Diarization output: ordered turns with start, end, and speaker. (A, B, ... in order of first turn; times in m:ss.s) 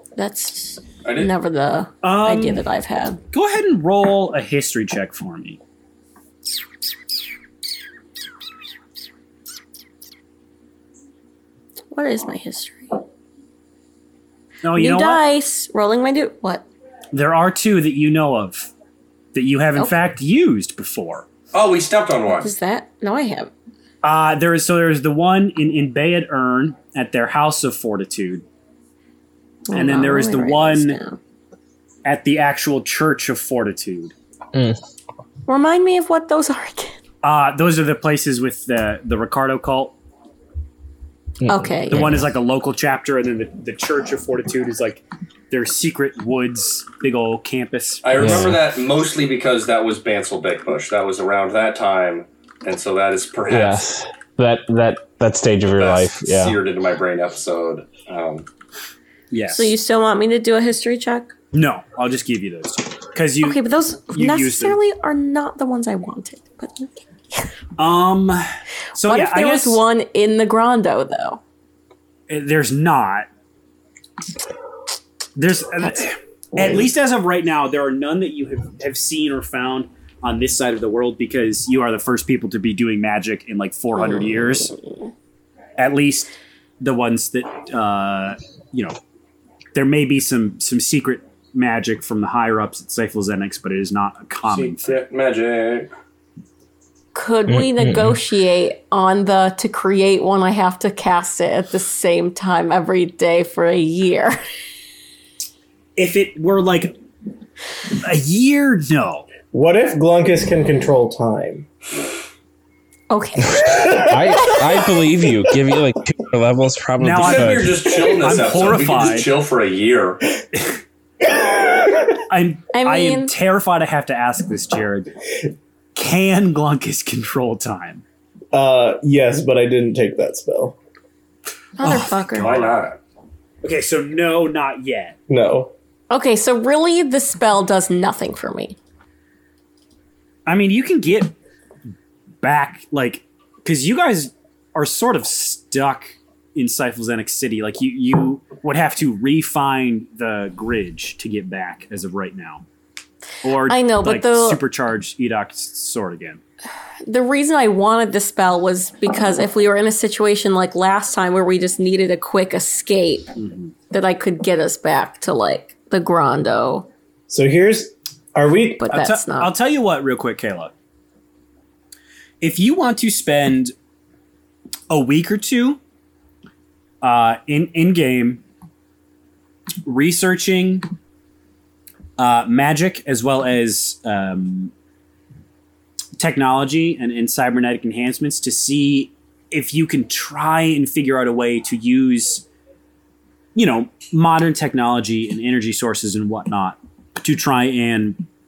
0:00.2-0:03.2 A
0:01.0-0:01.3 B
0:02.0-0:02.6 C
0:03.3-0:05.6 C
0:11.9-0:13.0 A
0:14.6-0:15.2 C
0:14.7-0:16.7 A
0:17.1-0:18.7 C
0:19.3-0:21.3 C
0:21.5-0:22.5 B
0:22.4-0:23.5 A
0:24.0-0:28.4 C
0:29.7-0:31.2 A
0:29.7-0:31.0 C
0:32.0-0:34.1 C
0:34.5-0:34.8 D
0:35.5-0:37.0 A
0:37.2-0:40.0 C
0:41.4-0:42.2 D
0:41.5-0:42.1 A
0:41.9-0:48.3 C
0:48.0-0:53.8 B
0:48.2-0:48.6 D
0:53.5-0:56.6 D
0:55.8-0:58.5 B
0:59.3-0:59.8 C
0:59.5-1:01.3 A
1:01.5-1:04.8 C
1:03.4-1:07.5 A
1:07.8-1:09.8 C
1:09.0-1:11.4 A
1:12.3-1:13.3 C
1:15.4-1:24.8 C
1:25.8-1:29.0 C
1:29.7-1:35.0 C
1:34.5-1:35.9 B
1:37.1-1:44.4 A
1:37.5-1:38.2 D
1:46.0-1:47.0 C
1:48.0-1:49.3 C
1:49.5-1:51.7 E
1:53.1-1:54.9 A
1:53.6-1:57.9 D
1:53.8-1:54.1 E
1:57.0-1:59.3 C
1:57.2-2:00.2 B
2:02.2-2:05.1 C
2:02.7-2:03.3 A
2:06.0-2:08.0 C
2:08.5-2:10.8 E
2:11.8-2:12.7 A
2:11.8-2:12.7 C
2:12.3-2:13.0 B
2:13.6-2:15.2 C
2:15.3-2:15.7 E
2:16.1-2:18.8 A
2:20.5-2:21.4 C
2:22.4-2:32.6 C
2:33.4-2:36.4 C
2:33.6-2:34.6 A
2:37.1-2:43.3 A
2:43.4-2:43.7 C
2:43.9-2:46.9 A
2:47.3-2:48.9 E
2:48.8-2:49.5 A
2:48.9-2:50.7 C
2:52.4-2:53.7 C
2:54.9-2:55.8 C
2:57.0-2:58.4 C
2:59.8-3:00.9 C
3:02.2-3:04.7 C
3:06.2-3:12.4 C
3:13.6-3:18.2 C